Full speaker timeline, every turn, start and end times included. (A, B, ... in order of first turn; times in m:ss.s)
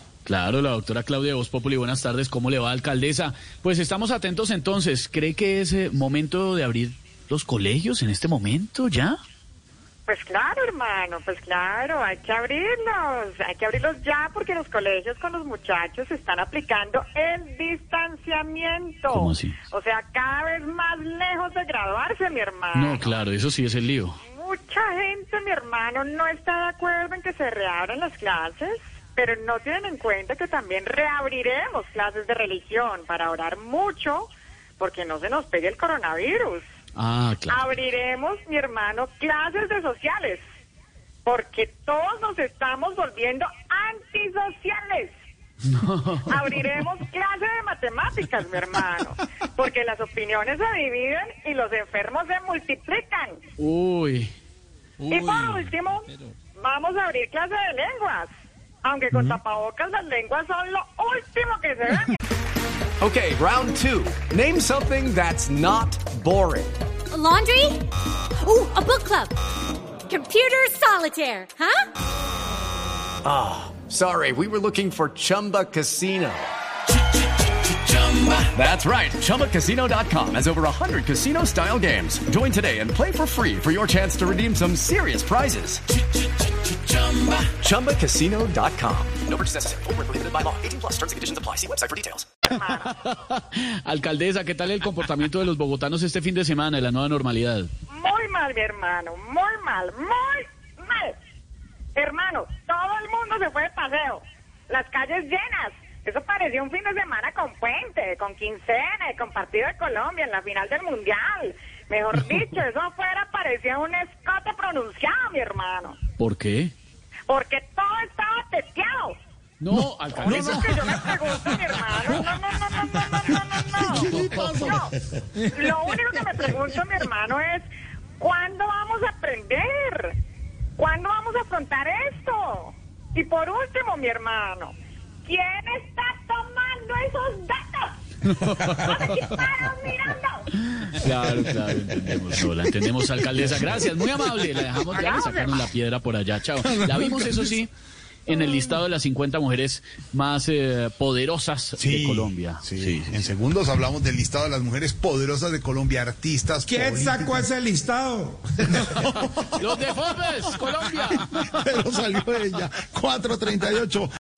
0:00.2-0:09.2 A
0:10.1-0:23.2 B
0:19.1-0:19.6 A
0:22.7-0:24.2 A
0:24.2-0:36.6 B
0:36.9-0:37.6 A
0:37.5-0:40.4 B
0:41.2-0:45.1 B
0:45.7-0:46.8 A
0:46.3-0:53.4 B
0:53.6-0:54.3 A
0:55.1-0:58.3 B
0:58.8-1:02.2 B
0:59.1-0:59.4 A
1:03.0-1:06.7 C
1:07.1-1:07.9 D
1:08.4-1:09.4 D
1:10.1-1:11.9 D
1:13.2-1:16.5 C
1:18.0-1:25.8 C
1:27.4-1:32.2 C
1:32.5-1:33.0 B
1:32.9-1:37.7 A
1:37.9-1:41.2 B
1:42.0-1:56.0 B
1:56.2-1:56.7 A
1:57.3-1:59.2 B
1:59.6-2:01.2 A
2:00.1-2:05.0 B
2:00.4-2:01.1 E
2:03.8-2:04.9 E
2:03.8-2:04.8 A
2:05.5-2:07.7 B
2:08.2-2:10.2 B
2:10.8-2:14.8 B
2:15.3-2:18.0 B
2:18.3-2:19.3 A
2:18.6-2:20.4 B
2:20.7-2:27.7 A
2:24.9-2:25.3 B
2:26.7-2:27.5 E
2:28.3-2:33.3 A
2:31.8-2:37.4 E
2:36.7-2:38.8 F
2:39.0-2:39.6 E
2:39.0-2:41.6 A
2:41.2-2:44.1 E